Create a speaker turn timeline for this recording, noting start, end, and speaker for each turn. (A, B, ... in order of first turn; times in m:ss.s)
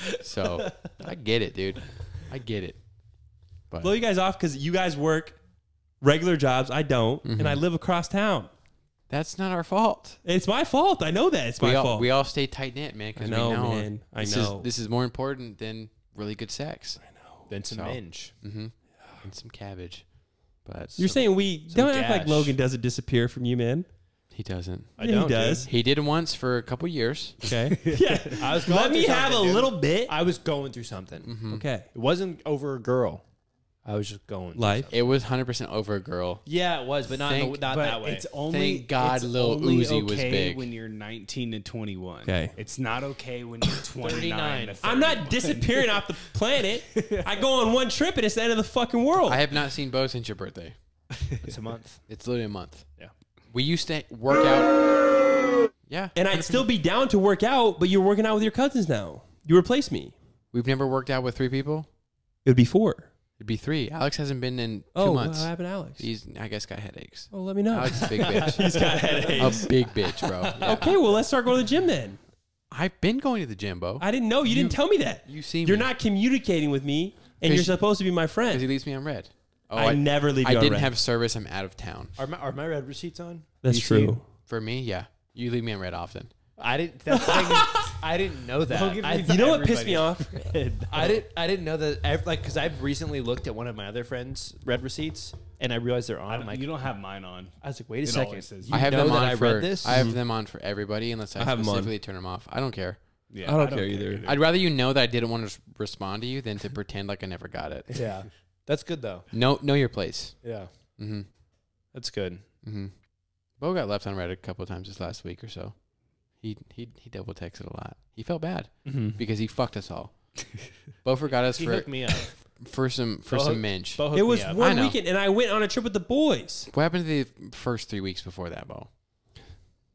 0:00.2-0:02.8 A
0:03.7-0:04.0 A
0:03.8-0:05.4 B
0:06.0-0:08.5 B
0:07.2-0:07.6 A
0:09.1-0:10.2 A
0:10.2-0:12.1 B
0:11.6-0:17.0 A
0:13.2-0:14.7 B
0:17.5-0:18.4 C
0:17.7-0:20.0 A
0:20.6-0:21.0 A
0:21.0-0:22.6 C
0:21.0-0:23.9 B
0:24.3-0:25.0 A
0:25.0-0:25.7 C
0:25.0-0:25.7 B
0:25.7-0:27.5 A
0:27.4-0:30.1 B
0:27.9-0:28.2 D
0:28.3-0:31.3 C
0:31.2-0:31.6 A
0:31.5-0:31.9 B
0:31.9-0:33.2 C
0:33.8-0:35.1 C
0:34.6-0:34.9 B
0:34.9-0:36.4 A
0:36.4-0:38.3 C
0:37.2-0:37.7 A
0:37.7-0:46.1 D
0:38.5-0:40.7 A
0:42.2-0:42.5 B
0:44.0-0:44.8 C
0:44.8-0:49.4 B
0:47.0-0:47.3 D
0:49.3-0:50.8 A
0:51.4-0:52.0 C
0:52.1-0:52.8 A
0:53.5-0:55.0 A
0:55.9-0:56.7 A
0:56.2-1:00.2 B
1:00.5-1:01.9 A
1:02.4-1:03.1 B
1:03.4-1:10.9 A
1:05.0-1:06.1 B
1:07.3-1:09.8 B
1:08.4-1:09.7 C
1:10.4-1:10.9 C
1:10.5-1:12.2 B
1:12.7-1:15.9 A
1:14.0-1:18.7 B
1:17.4-1:17.8 A
1:18.5-1:22.2 A
1:19.8-1:20.9 B
1:22.2-1:24.1 C
1:23.6-1:24.2 B
1:24.5-1:26.3 A
1:26.6-1:29.4 C
1:27.2-1:27.9 B
1:28.7-1:31.2 D
1:29.2-1:30.6 B
1:30.9-1:36.7 C
1:36.3-1:39.1 D
1:37.6-1:40.0 C
1:38.7-1:43.0 A
1:39.8-1:40.2 B
1:41.4-1:41.9 B
1:43.3-1:44.4 D
1:43.4-1:44.3 B
1:44.2-1:48.1 A
1:47.9-1:49.3 C
1:49.3-1:50.4 A
1:50.4-1:50.7 C
1:51.0-1:51.3 A
1:51.9-1:52.4 C
1:52.6-1:52.9 A
1:53.6-1:55.8 A
1:56.4-2:00.2 A
1:58.8-1:59.2 C
2:01.0-2:05.0 A
2:01.5-2:02.4 C
2:03.3-2:04.6 C
2:04.1-2:06.7 B
2:06.7-2:08.9 A